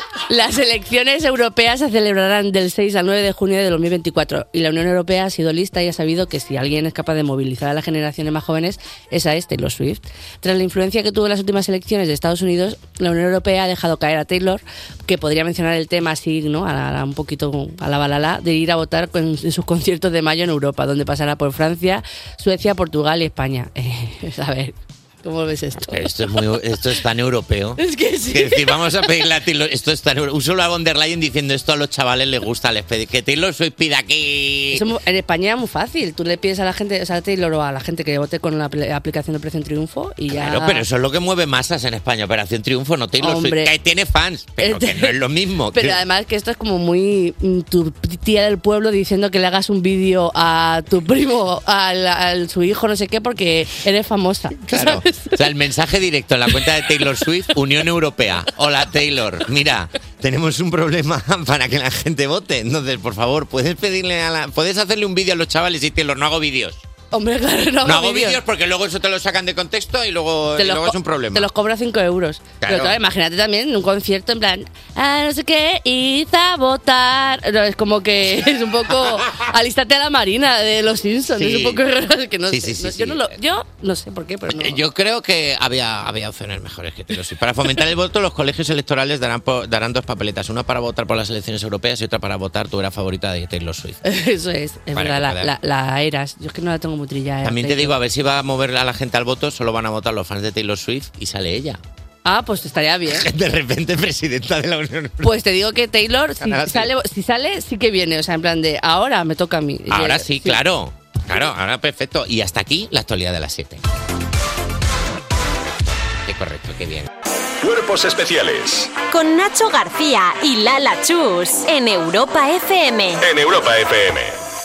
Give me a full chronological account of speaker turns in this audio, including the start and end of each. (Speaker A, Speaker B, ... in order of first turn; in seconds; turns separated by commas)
Speaker A: 0.3-26.1, Speaker B: 25.9-34.9, Speaker A: 27.8-28.8, Speaker A: 34.7-40.9, Speaker B: 40.3-46.0, Speaker A: 43.2-43.7, Speaker A: 44.6-45.2, Speaker A: 45.7-55.4, Speaker B: 54.6-66.8, Speaker A: 67.1-68.4, Speaker B: 67.8-71.5, Speaker A: 70.6-84.8, Speaker B: 72.6-73.0, Speaker B: 81.3-81.8, Speaker B: 82.5-83.4, Speaker B: 84.5-94.0, Speaker A: 94.0-98.0, Speaker B: 95.0-95.5, Speaker B: 97.4-101.8, Speaker A: 102.2-103.3, Speaker B: 103.2-105.3, Speaker A: 105.2-110.6, Speaker B: 106.4-106.9, Speaker B: 109.9-113.8, Speaker B: 116.2-117.1, Speaker C: 117.6-119.0, Speaker D: 119.1-123.2, Speaker C: 123.2-124.3